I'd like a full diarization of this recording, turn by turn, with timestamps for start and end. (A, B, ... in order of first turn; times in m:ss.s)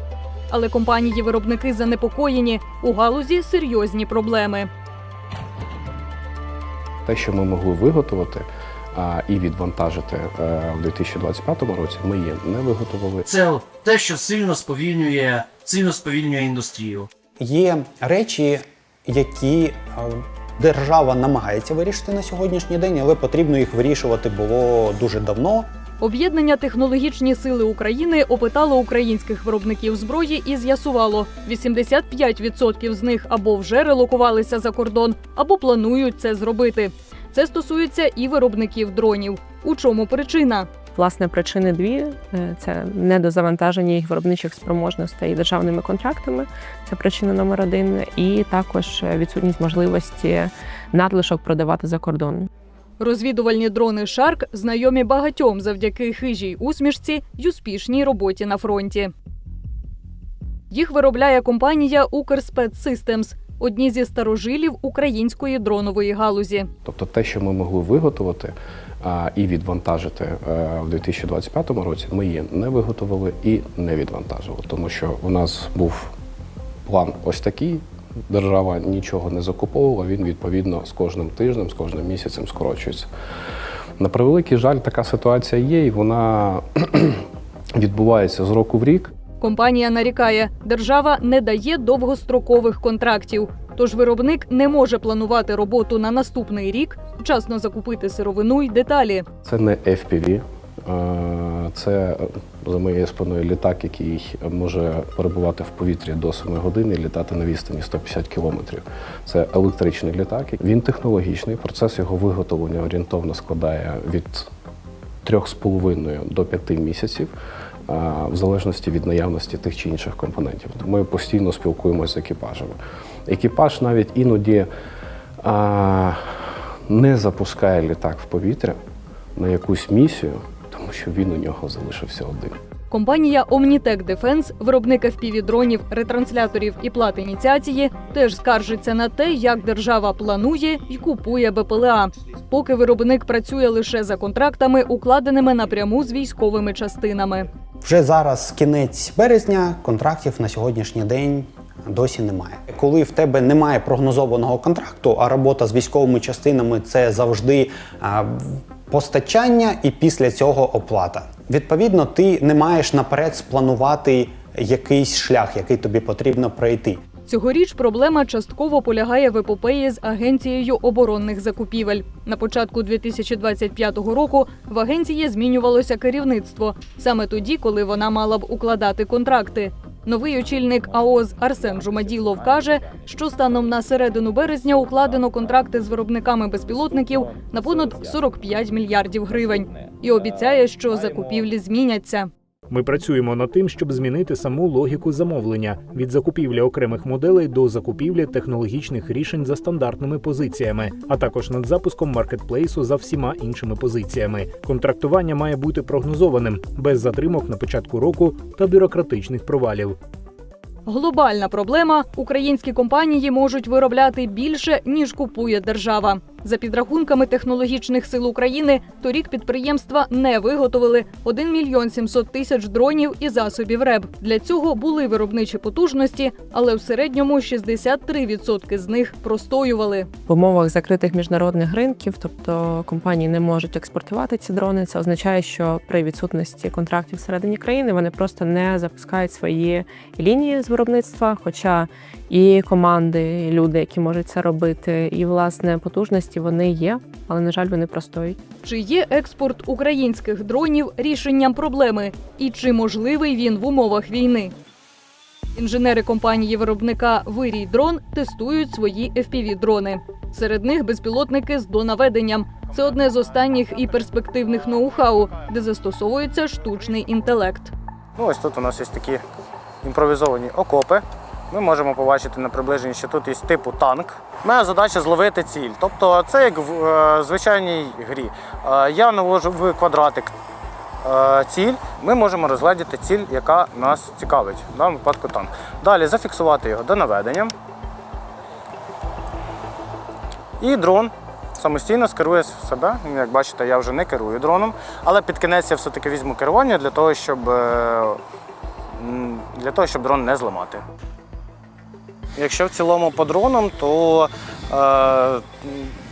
0:00.5-0:04.7 A
0:07.1-0:13.3 B
0:13.4-0:17.0 C
0:17.4-0:25.7 D
0:26.0-0:40.7 A
0:41.0-0:47.3 E
0:47.9-0:52.1 E
0:53.0-0:59.1 A
1:00.7-1:06.7 A
1:06.9-1:16.1 B
1:16.9-1:23.1 B
1:24.0-1:27.2 B
1:27.8-1:29.1 B
1:29.4-1:39.3 A
1:39.4-1:54.5 B
1:55.2-1:57.3 B
1:57.9-2:02.8 B
2:03.3-2:04.7 B
2:05.4-2:06.2 B
2:06.9-2:08.8 B
2:09.4-2:12.6 B
2:12.9-2:27.5 A
2:27.8-2:47.0 D
2:47.3-3:12.3 A
3:12.7-3:30.0 F
3:30.9-3:50.1 A
3:50.3-3:53.0 E
3:53.2-3:54.3 B
3:53.7-3:59.3 E
3:55.1-3:56.1 B
3:57.0-3:57.6 B
3:59.3-4:01.1 B
4:00.2-4:01.7 E
4:02.3-4:08.1 E
4:08.6-4:14.5 A
4:15.6-4:27.7 A
4:28.2-4:29.2 G
4:29.8-4:40.3 G
4:41.0-4:47.5 G
4:50.6-4:58.2 G
4:59.0-5:00.8 G
5:02.4-5:05.9 G